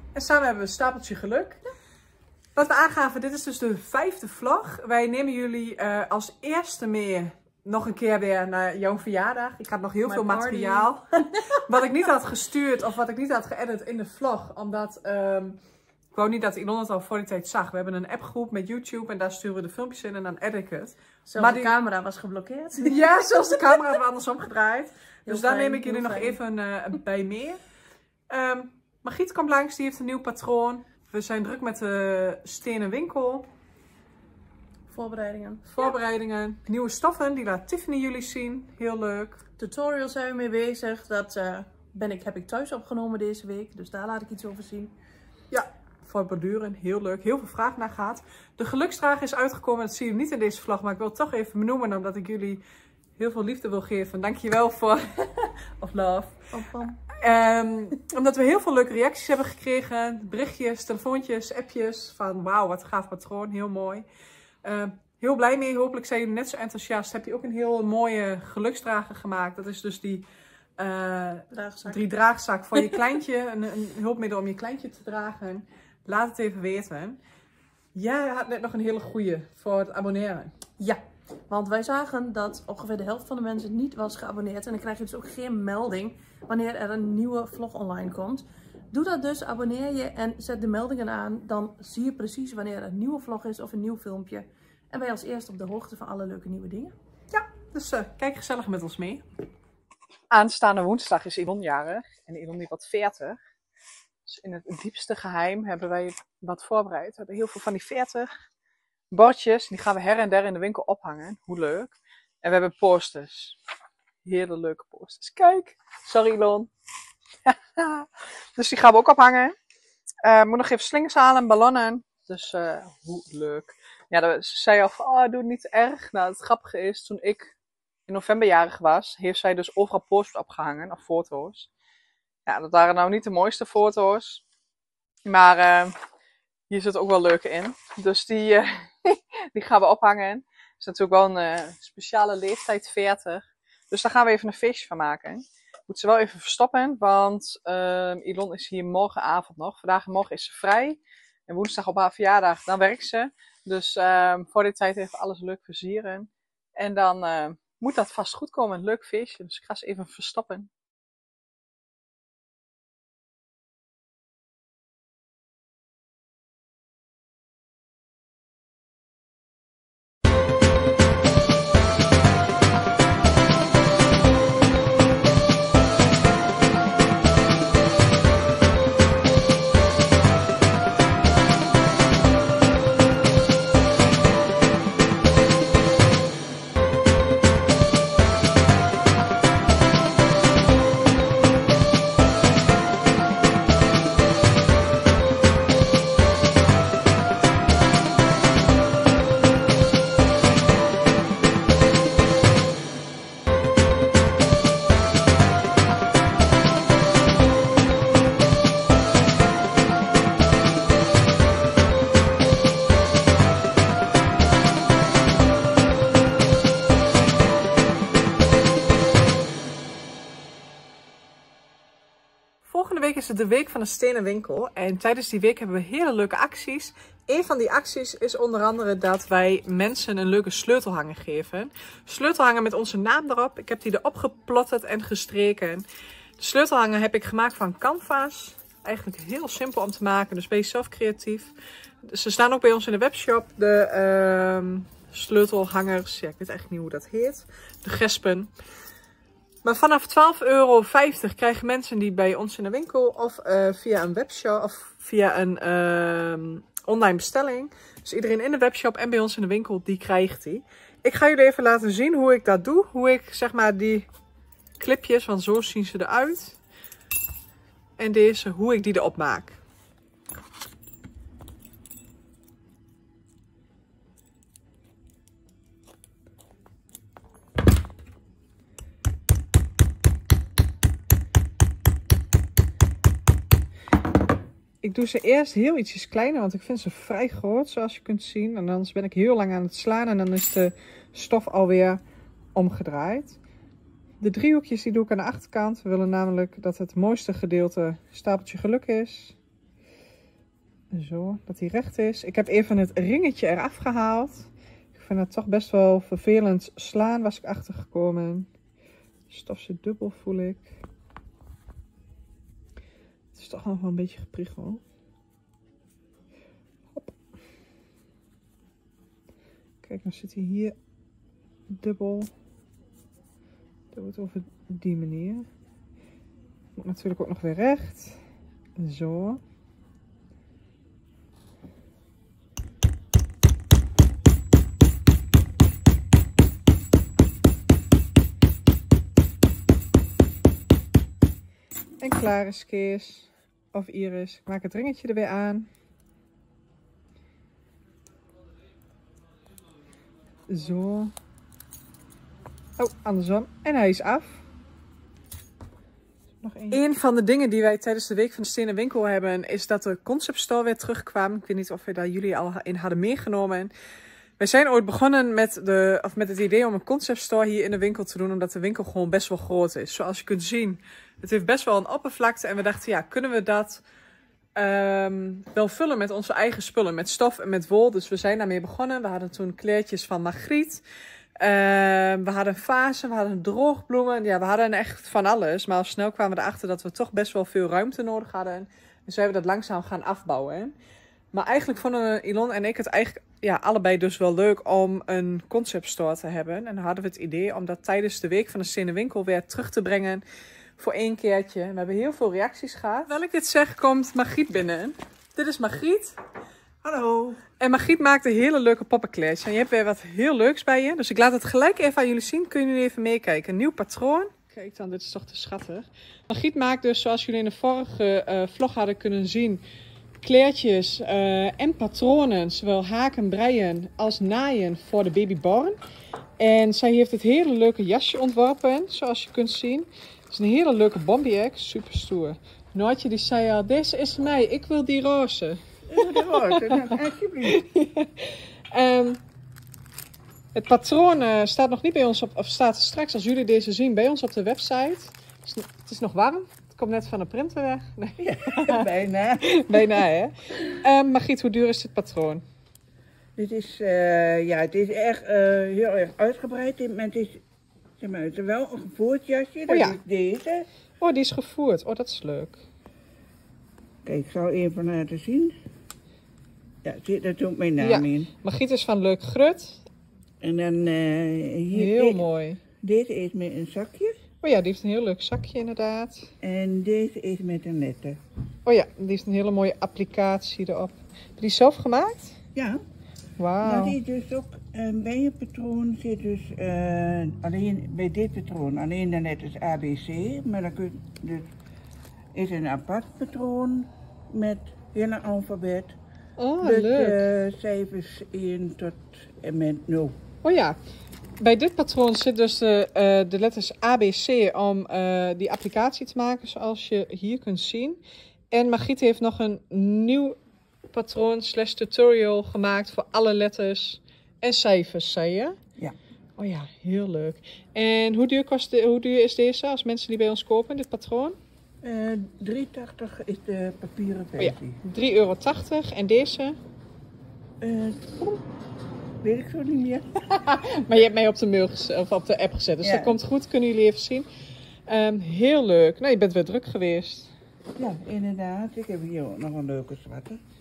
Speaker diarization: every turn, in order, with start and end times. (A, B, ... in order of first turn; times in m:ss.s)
0:00.1-0:01.6 A
0:02.5-0:15.6 A
0:10.0-0:11.4 B
0:16.1-0:21.7 A
0:21.2-0:23.0 B
0:22.8-0:27.6 A
0:25.2-0:26.4 B
0:28.3-0:33.5 A
0:34.9-0:36.0 B
0:35.7-0:39.4 A
0:39.6-0:44.9 B
0:45.5-0:52.6 A
0:53.2-0:56.4 A
0:56.5-0:57.0 B
0:57.1-1:04.0 A
1:04.6-1:17.2 A
1:11.5-1:12.0 B
1:17.9-1:20.5 A
1:20.8-1:36.9 B
1:37.3-1:39.2 A
1:40.3-1:43.4 A
1:44.2-1:48.3 A
1:49.1-1:53.6 A
1:54.2-1:56.7 A
1:57.4-1:59.6 A
2:00.2-2:07.5 A
2:08.1-2:11.7 A
2:12.4-2:14.4 A
2:15.2-2:15.9 A
2:16.7-2:40.7 A
3:42.6-3:55.8 A
3:56.4-4:01.5 A
4:02.0-4:08.5 A
4:09.6-4:24.1 A
4:24.8-4:26.6 A
4:28.0-4:29.6 A
4:44.8-4:52.0 A
4:52.5-4:53.4 A
4:54.2-4:59.4 A
5:00.9-5:08.5 A
5:09.3-5:10.7 A
5:13.3-5:14.8 A
5:19.8-5:20.7 A
5:21.7-5:22.3 A
5:23.9-5:25.5 A
5:26.8-5:28.2 A
5:28.8-5:29.4 A
5:42.0-5:45.7 A
5:50.5-5:51.1 A
5:52.8-5:54.4 A
5:56.4-6:03.7 A
6:04.4-6:13.8 A
6:14.6-6:20.8 A
6:21.4-6:30.7 A
6:31.3-6:40.2 A
6:40.8-6:46.2 A
6:46.8-6:47.4 C
6:47.6-6:59.6 A
7:00.2-7:05.8 A
7:06.4-7:19.2 A
7:15.9-7:17.6 C
7:20.5-7:28.9 A
7:28.2-7:30.0 C
7:29.4-7:32.4 A
7:33.4-7:37.4 C
7:38.0-7:40.7 C
7:39.7-7:40.0 A
7:41.0-7:42.6 A
7:44.0-7:45.5 C
7:46.8-7:48.3 C
7:47.8-7:49.8 A
7:50.4-7:52.2 C
7:51.7-7:52.6 A
7:52.8-7:54.2 C
7:54.4-7:56.3 A
7:56.4-7:58.2 C
7:58.6-8:02.4 A
8:02.5-8:02.8 C
8:03.4-8:04.0 A
8:03.6-8:11.5 C
8:12.3-8:16.0 C
8:16.4-8:17.2 A
8:16.6-8:20.2 C
8:20.4-8:20.8 A
8:21.4-8:30.4 A
8:30.9-8:35.6 A
8:36.4-8:41.4 A
8:41.8-8:44.8 C
8:44.4-8:46.6 A
8:47.6-8:48.4 C
8:49.2-8:50.1 C
8:50.3-8:54.3 A
8:52.8-8:53.2 C
8:54.9-8:57.3 A
8:57.8-9:00.4 C